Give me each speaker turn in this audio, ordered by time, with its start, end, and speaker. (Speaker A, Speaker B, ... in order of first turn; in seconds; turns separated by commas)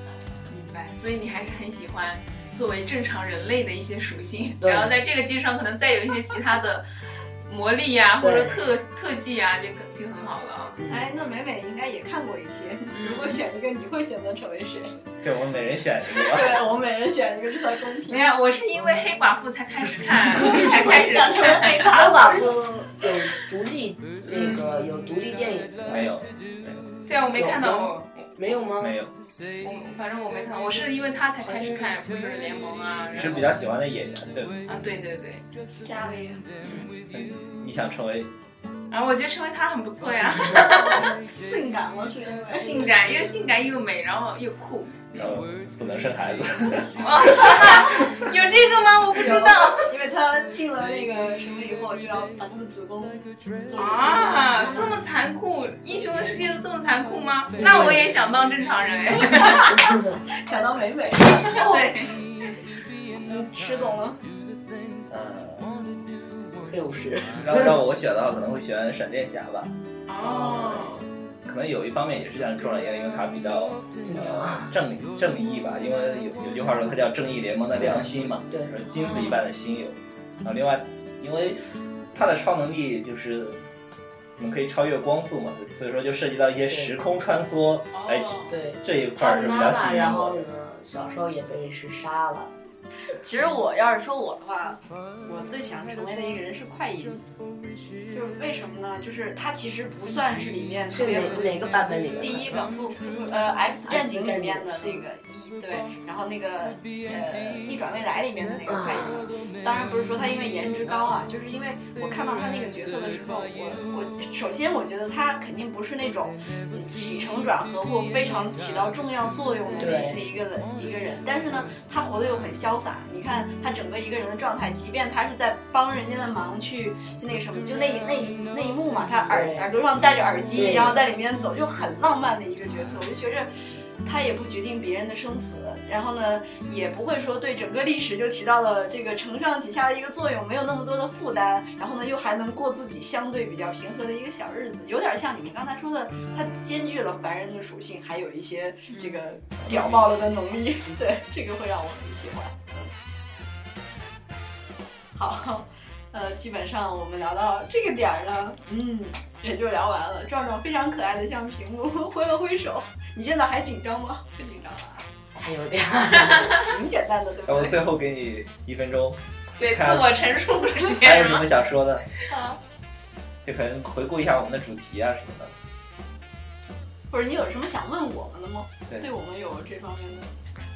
Speaker A: 0.5-6.9, Speaker B: 4.6-4.9, Speaker A: 7.4-10.8, Speaker B: 8.2-8.6, Speaker B: 10.8-11.1, Speaker C: 10.9-15.0, Speaker A: 12.9-13.4, Speaker D: 15.2-16.6, Speaker C: 16.1-18.3, Speaker A: 18.1-22.0, Speaker C: 20.3-22.6, Speaker B: 21.8-26.1, Speaker A: 24.3-24.6, Speaker D: 25.9-26.9, Speaker A: 27.1-28.3, Speaker B: 27.3-29.0, Speaker D: 28.8-29.1, Speaker A: 29.6-33.6, Speaker B: 31.4-31.9, Speaker D: 33.1-34.6, Speaker A: 34.6-35.4, Speaker C: 35.7-36.4, Speaker A: 36.6-36.9, Speaker D: 37.1-38.3, Speaker A: 38.9-41.1, Speaker C: 40.7-42.9, Speaker A: 42.5-45.1, Speaker D: 45.1-47.5, Speaker A: 47.0-49.9, Speaker C: 49.3-54.9, Speaker A: 53.7-59.8, Speaker B: 57.6-58.1, Speaker C: 59.2-62.1, Speaker A: 61.3-62.2, Speaker C: 63.1-64.2, Speaker D: 65.1-65.8, Speaker B: 66.7-67.8, Speaker D: 67.4-69.7, Speaker A: 70.1-71.0, Speaker B: 70.2-71.0, Speaker D: 71.4-83.6, Speaker B: 74.0-74.7, Speaker B: 77.7-78.7, Speaker A: 78.9-79.4, Speaker D: 84.4-90.4, Speaker A: 87.9-88.6, Speaker B: 88.5-92.5, Speaker C: 93.0-97.2, Speaker C: 98.1-101.6, Speaker B: 100.9-102.6, Speaker C: 102.2-133.5, Speaker B: 103.8-105.0, Speaker B: 108.7-109.3, Speaker B: 119.8-120.2, Speaker B: 129.3-129.7, Speaker B: 130.5-131.0, Speaker C: 134.0-152.9, Speaker A: 148.9-149.3, Speaker D: 149.6-150.1, Speaker C: 155.1-165.0, Speaker B: 165.3-166.7, Speaker C: 166.5-167.9, Speaker D: 167.4-170.2, Speaker A: 169.6-171.5, Speaker D: 170.9-172.1, Speaker C: 172.3-172.6, Speaker D: 173.4-175.5, Speaker C: 177.1-180.3